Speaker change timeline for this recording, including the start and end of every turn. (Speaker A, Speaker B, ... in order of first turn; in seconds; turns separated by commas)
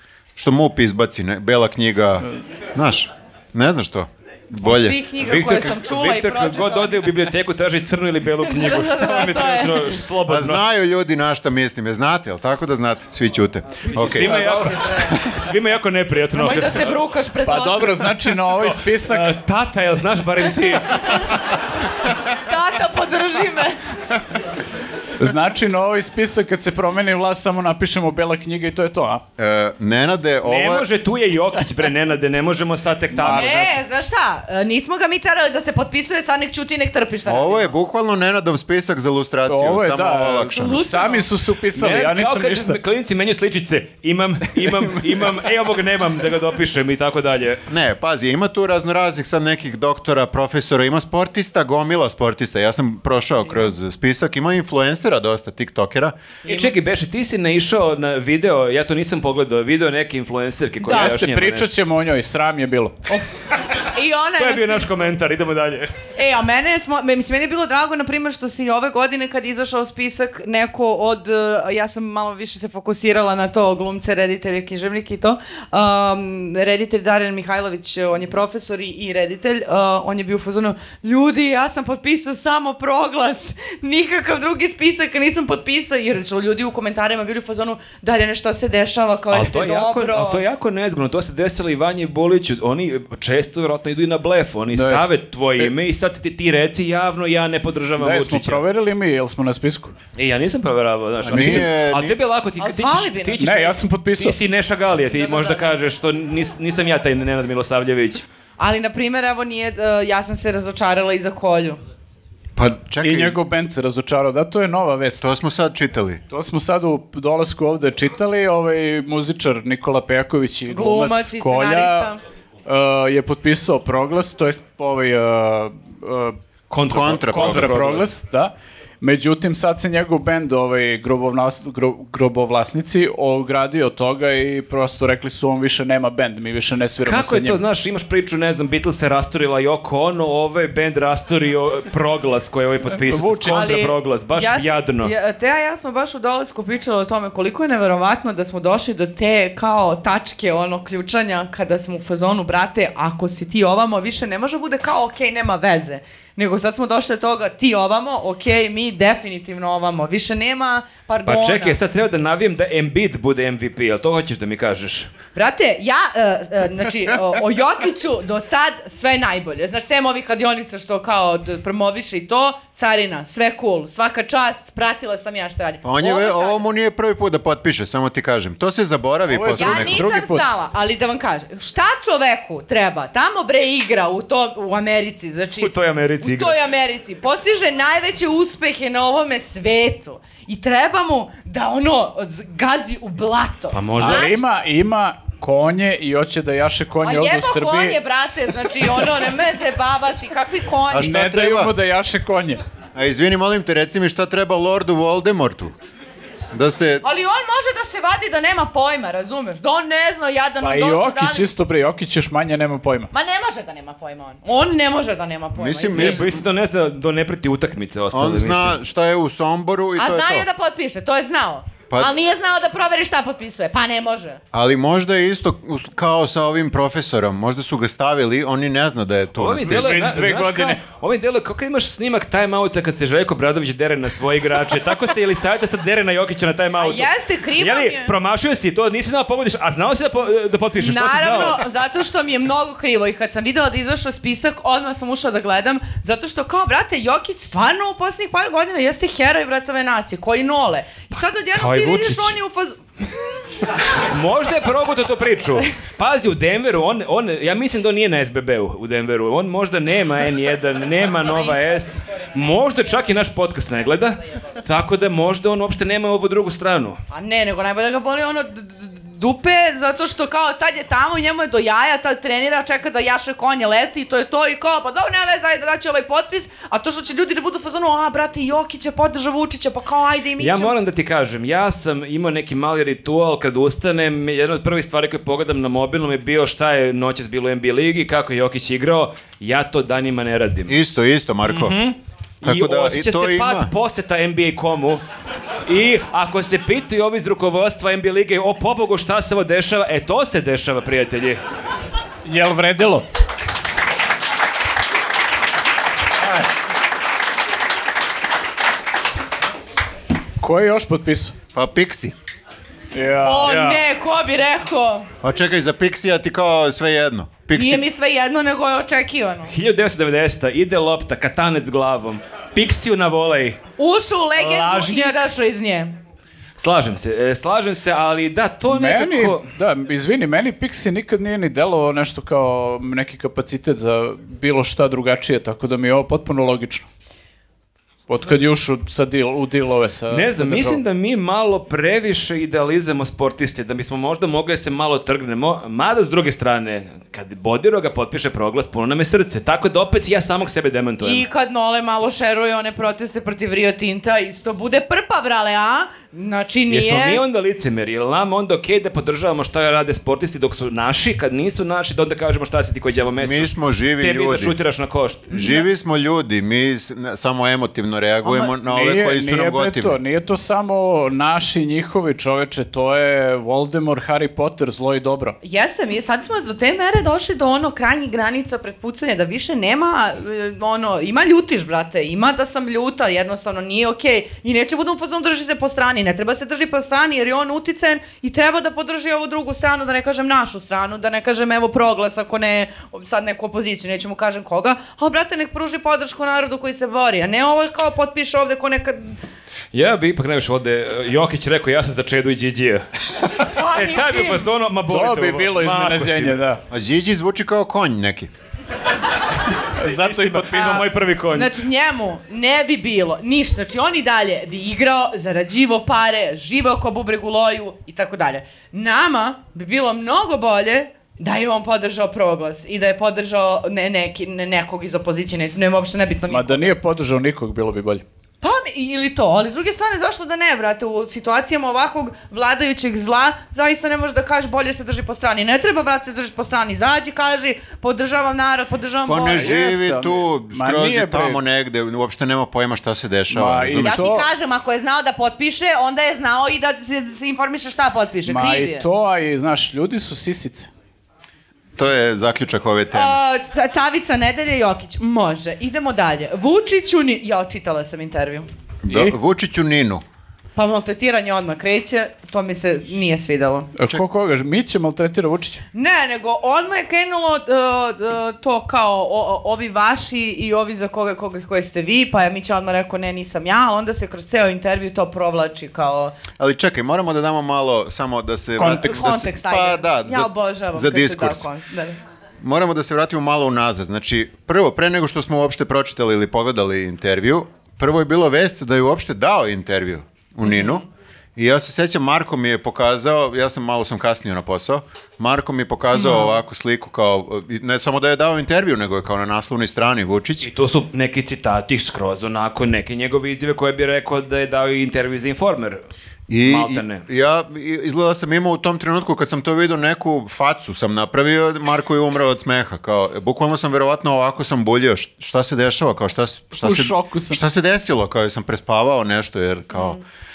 Speaker A: 0.3-5.0, Speaker B: 4.6-7.0, Speaker C: 5.2-10.6, Speaker B: 8.4-10.0, Speaker A: 10.3-14.4, Speaker C: 13.8-16.9, Speaker B: 14.0-15.2, Speaker B: 16.3-18.1, Speaker D: 17.4-19.3, Speaker C: 18.5-21.3, Speaker B: 22.3-23.8, Speaker D: 25.2-29.2, Speaker A: 29.4-30.9, Speaker C: 30.4-33.8, Speaker D: 33.1-33.8, Speaker B: 33.2-37.7, Speaker A: 37.2-40.8, Speaker D: 39.5-42.8, Speaker B: 40.5-41.3, Speaker C: 41.7-47.6, Speaker A: 47.7-56.2, Speaker B: 56.5-56.7, Speaker C: 56.5-61.7, Speaker B: 60.8-61.2, Speaker D: 60.9-63.0, Speaker B: 63.8-65.0, Speaker C: 64.3-65.9, Speaker B: 66.2-90.4, Speaker C: 89.3-98.6, Speaker D: 94.7-95.7, Speaker D: 98.0-99.9, Speaker C: 100.1-108.2, Speaker D: 101.2-101.7, Speaker A: 101.3-102.1, Speaker B: 102.6-103.7, Speaker D: 103.4-104.4, Speaker B: 105.2-105.7, Speaker B: 108.6-111.8, Speaker A: 112.5-113.4, Speaker D: 113.0-115.2, Speaker A: 115.2-116.2, Speaker D: 116.3-122.1, Speaker B: 120.7-122.2, Speaker D: 122.7-126.4, Speaker C: 126.7-128.1, Speaker A: 126.8-127.8, Speaker D: 127.3-137.6, Speaker C: 137.0-145.1, Speaker D: 143.0-143.7, Speaker B: 143.5-161.8, Speaker C: 161.2-165.1, Speaker B: 165.3-176.6, Speaker A: 175.8-180.0, Speaker D: 179.3-180.5, Speaker B: 179.5-194.4, Speaker C: 185.6-186.6, Speaker C: 193.7-194.3, Speaker D: 194.0-198.0, Speaker B: 197.0-201.2, Speaker A: 200.9-201.7, Speaker D: 200.9-202.6, Speaker A: 202.9-205.7, Speaker A: 206.5-207.0, Speaker B: 207.0-211.5, Speaker D: 210.6-213.1, Speaker B: 213.1-216.3, Speaker A: 215.6-216.4, Speaker C: 215.9-218.7, Speaker A: 218.1-220.5, Speaker B: 220.0-224.4, Speaker A: 224.5-229.8, Speaker C: 229.3-241.6, Speaker D: 229.6-230.8, Speaker B: 236.8-238.1, Speaker B: 240.8-252.8, Speaker C: 251.5-252.3, Speaker C: 254.1-267.0, Speaker B: 261.4-261.9, Speaker B: 267.1-280.7, Speaker C: 280.4-290.8, Speaker A: 290.7-291.8, Speaker C: 291.4-295.0, Speaker A: 292.4-293.7, Speaker C: 295.7-301.4, Speaker D: 302.2-303.1, Speaker D: 310.4-311.3, Speaker A: 311.5-312.1, Speaker D: 312.9-313.5, Speaker B: 313.2-315.1, Speaker C: 313.4-313.8, Speaker A: 315.2-317.8, Speaker B: 317.5-319.5, Speaker C: 319.5-323.6, Speaker B: 323.8-325.9, Speaker C: 324.4-325.2, Speaker C: 326.6-329.5, Speaker D: 328.7-336.9, Speaker D: 338.1-340.8, Speaker C: 340.1-351.2, Speaker B: 351.0-357.2, Speaker C: 356.7-365.4, Speaker A: 363.2-364.6, Speaker A: 365.3-370.0, Speaker B: 365.3-365.6, Speaker D: 368.3-375.4, Speaker B: 375.4-399.1, Speaker C: 399.7-402.9, Speaker B: 403.4-404.4, Speaker C: 403.7-406.4, Speaker D: 404.9-406.6, Speaker A: 406.7-408.3, Speaker D: 409.8-410.8, Speaker C: 409.9-411.5, Speaker B: 410.6-426.7, Speaker D: 426.3-428.0, Speaker B: 428.4-439.6, Speaker A: 439.1-444.2, Speaker D: 439.4-441.4, Speaker D: 443.3-444.2, Speaker B: 443.8-448.9, Speaker D: 448.2-450.7, Speaker A: 451.8-453.1, Speaker B: 452.9-458.5, Speaker A: 458.8-460.0, Speaker D: 458.9-459.1, Speaker B: 460.5-463.7, Speaker D: 463.7-465.6, Speaker B: 465.7-476.2, Speaker A: 476.4-481.5, Speaker D: 478.6-479.0, Speaker B: 478.6-482.0, Speaker A: 482.4-500.5, Speaker B: 490.4-490.9, Speaker B: 495.9-496.3, Speaker C: 500.4-505.8, Speaker A: 506.3-520.0, Speaker C: 506.4-507.0, Speaker D: 516.5-517.4